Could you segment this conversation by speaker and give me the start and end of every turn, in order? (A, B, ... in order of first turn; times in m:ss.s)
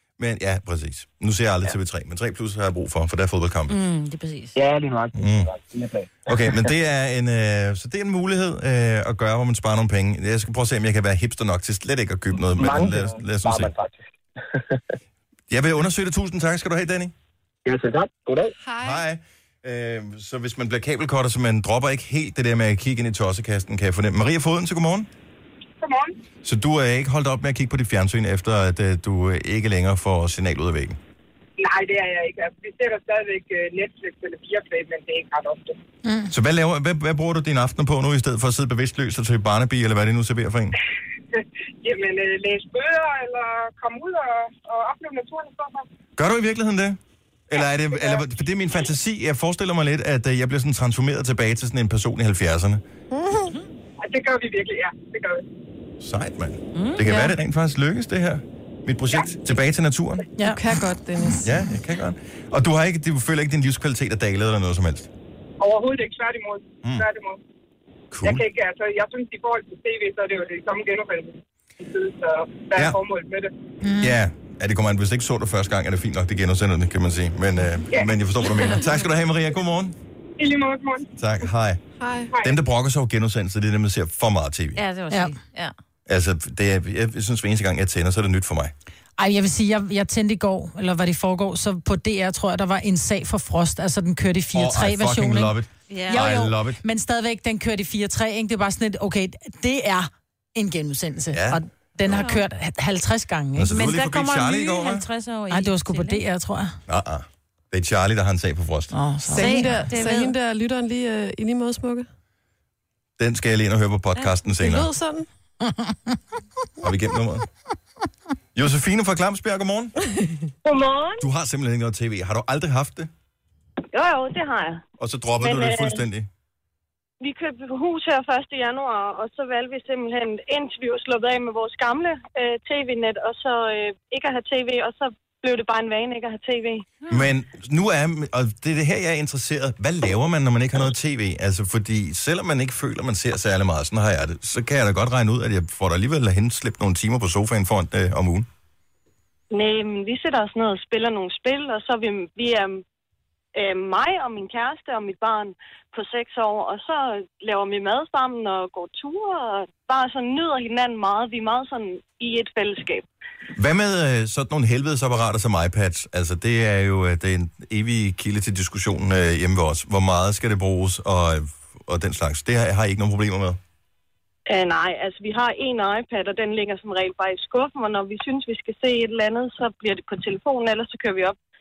0:00.2-0:03.8 A
0:03.7-0:04.6 B
0:04.6-0:06.7 C
0:05.2-0:05.5 A
0:06.3-0:13.7 A
0:12.5-0:14.8 C
0:15.5-0:17.1 A
0:17.6-0:18.5 C
0:18.6-0:19.0 D
0:18.8-0:25.1 A
0:25.8-0:26.2 E
0:26.4-0:31.0 A
0:31.6-0:35.8 E
0:36.0-0:36.3 F
0:36.3-0:40.8 A
0:41.8-0:45.8 E
0:46.2-0:52.8 A
0:47.9-0:48.2 E
0:53.1-0:53.5 D
0:54.0-0:55.4 E
0:56.0-1:00.3 A
0:56.7-0:57.4 B
1:00.4-1:01.5 D
1:01.4-1:05.1 A
1:05.6-1:07.4 E
1:08.1-1:08.4 A
1:08.2-1:13.5 E
1:12.7-1:13.0 A
1:13.8-1:14.2 F
1:14.0-1:20.0 A
1:17.9-1:18.5 E
1:20.4-1:21.1 E
1:21.2-1:21.8 A
1:22.0-1:22.3 D
1:22.3-1:22.6 E
1:22.4-1:24.8 A
1:24.8-1:25.7 B
1:25.1-1:25.4 F
1:26.1-1:28.7 A
1:29.2-1:35.6 F
1:34.5-1:36.8 A
1:35.9-1:36.3 B
1:36.1-1:43.8 F
1:41.3-1:42.2 A
1:42.1-1:42.4 B
1:43.6-1:45.0 A
1:43.7-1:46.2 B
1:45.5-1:46.7 F
1:46.9-1:49.0 A
1:48.9-1:49.7 F
1:49.3-1:52.1 D
1:49.4-1:50.4 B
1:53.2-1:54.9 A
1:54.6-1:55.3 D
1:55.6-1:55.9 F
1:56.8-1:57.4 A
1:58.6-2:00.0 A
2:00.6-2:01.2 G
2:01.2-2:03.1 A
2:03.9-2:04.8 G
2:05.0-2:06.3 A
2:05.4-2:06.0 G
2:07.2-2:16.8 G
2:17.1-2:28.5 A
2:29.5-2:32.8 G
2:33.6-2:43.0 G
2:43.6-2:53.6 A
2:54.5-3:01.4 G